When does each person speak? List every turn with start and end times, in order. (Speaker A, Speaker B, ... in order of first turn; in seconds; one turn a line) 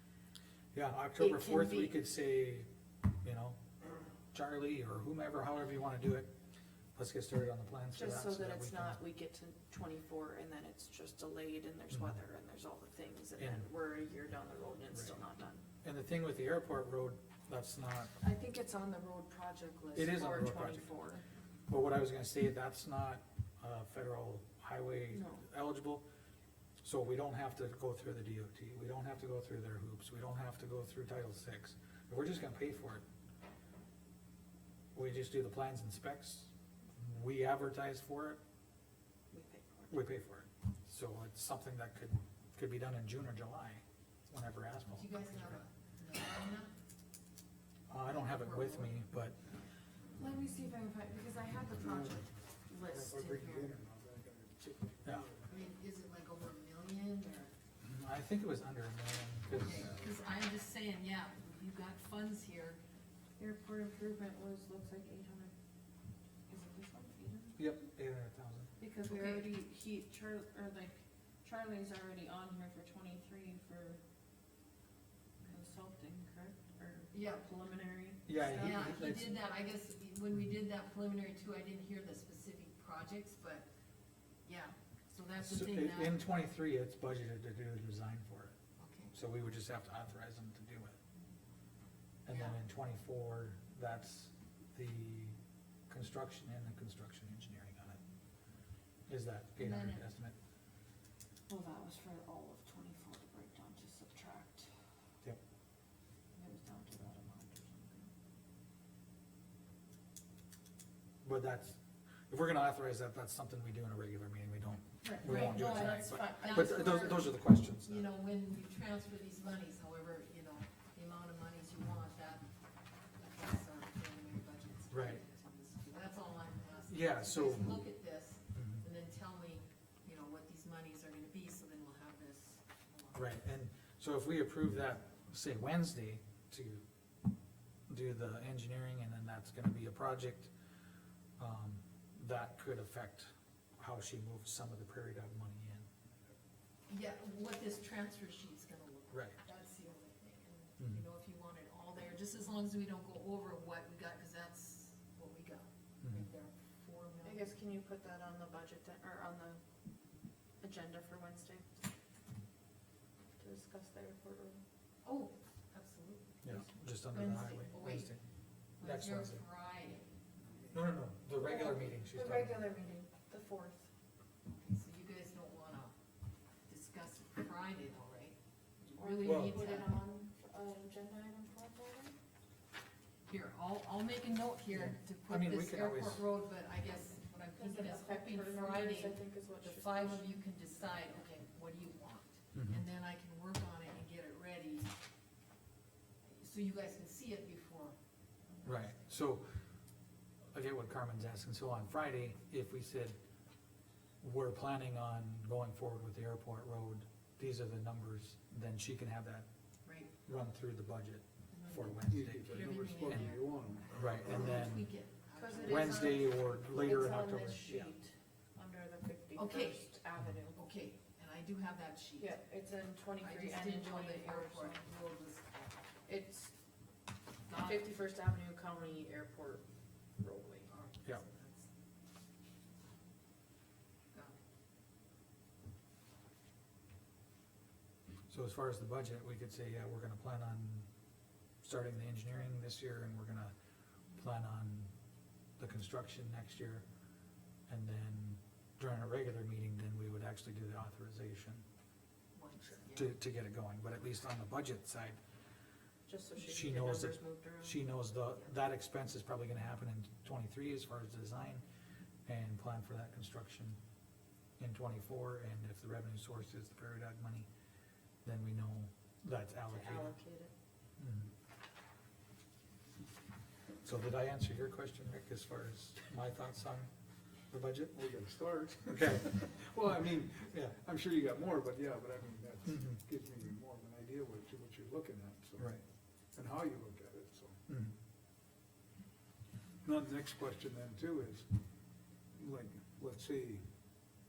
Speaker A: 0.7-2.7
Speaker B: 1.2-2.0
Speaker A: 3.2-3.6
Speaker A: 4.3-6.3
Speaker A: 6.9-9.0
Speaker B: 7.9-15.7
Speaker A: 13.4-13.7
Speaker A: 15.8-18.1
Speaker B: 18.2-21.2
Speaker A: 19.9-20.9
Speaker A: 21.7-26.0
Speaker B: 25.1-25.4
Speaker A: 26.8-33.0
Speaker A: 34.9-38.4
Speaker B: 39.3-40.0
Speaker A: 39.9-45.5
Speaker C: 44.9-46.7
Speaker A: 47.9-49.4
Speaker C: 48.1-48.9
Speaker B: 50.1-53.7
Speaker D: 51.8-52.2
Speaker D: 52.9-55.6
Speaker C: 55.5-57.5
Speaker A: 57.8-60.0
Speaker C: 59.6-62.8
Speaker B: 63.4-65.5
Speaker B: 66.5-67.6
Speaker A: 67.5-68.7
Speaker B: 68.8-74.0
Speaker C: 69.0-69.5
Speaker B: 75.4-79.0
Speaker C: 77.1-77.5
Speaker A: 78.2-79.4
Speaker C: 78.4-83.7
Speaker C: 84.4-86.2
Speaker A: 85.4-88.5
Speaker C: 88.8-89.1
Speaker A: 89.1-91.0
Speaker A: 92.2-95.3
Speaker C: 92.3-92.6
Speaker A: 95.9-98.0
Speaker A: 99.1-100.3
Speaker C: 99.6-100.0
Speaker B: 101.5-104.7
Speaker B: 106.3-108.1
Speaker A: 111.2-111.8
Speaker A: 112.3-118.0
Speaker B: 115.0-117.2
Speaker C: 115.2-122.5
Speaker C: 123.2-133.3
Speaker A: 124.9-125.2
Speaker A: 126.9-127.8
Speaker A: 128.5-128.8
Speaker A: 133.1-136.8
Speaker A: 137.9-140.5
Speaker A: 141.4-145.9
Speaker C: 146.9-157.5
Speaker B: 157.2-159.6
Speaker B: 160.6-161.7
Speaker B: 163.4-164.6
Speaker C: 165.0-166.4
Speaker A: 166.4-168.2
Speaker C: 167.1-168.1
Speaker C: 168.8-170.1
Speaker A: 168.8-169.4
Speaker A: 170.7-172.6
Speaker B: 171.4-173.9
Speaker C: 174.5-175.9
Speaker C: 176.7-180.0
Speaker B: 178.9-182.2
Speaker A: 179.2-179.6
Speaker C: 183.3-194.9
Speaker A: 184.7-186.2
Speaker B: 187.6-190.3
Speaker A: 192.5-192.8
Speaker C: 196.2-197.9
Speaker A: 198.6-199.6
Speaker A: 200.5-203.2
Speaker A: 204.2-209.5
Speaker C: 209.8-210.1
Speaker A: 210.2-213.3
Speaker C: 211.5-216.4
Speaker D: 212.1-214.7
Speaker B: 212.8-213.2
Speaker A: 213.9-214.9
Speaker B: 215.3-220.6
Speaker A: 215.6-217.9
Speaker C: 219.3-220.0
Speaker C: 220.5-222.3
Speaker B: 222.2-224.8
Speaker C: 223.2-225.8
Speaker B: 226.1-226.5
Speaker C: 227.5-227.9
Speaker B: 227.5-229.6
Speaker B: 230.2-230.7
Speaker C: 230.7-231.7
Speaker C: 234.1-234.4
Speaker A: 238.3-240.8
Speaker A: 241.6-243.5
Speaker A: 244.2-244.9
Speaker A: 245.6-246.8
Speaker A: 247.7-251.6
Speaker C: 252.3-253.1
Speaker A: 252.7-255.2
Speaker B: 256.1-257.8
Speaker A: 256.4-261.6
Speaker A: 262.2-263.8
Speaker A: 264.6-267.5
Speaker A: 268.2-270.1
Speaker B: 269.7-270.5
Speaker A: 271.0-271.3
Speaker A: 273.8-276.9
Speaker A: 277.5-278.0
Speaker D: 277.9-285.8
Speaker A: 278.9-279.6
Speaker A: 282.6-283.0
Speaker D: 286.3-287.6
Speaker A: 287.7-287.9
Speaker D: 289.8-291.5
Speaker D: 292.3-293.6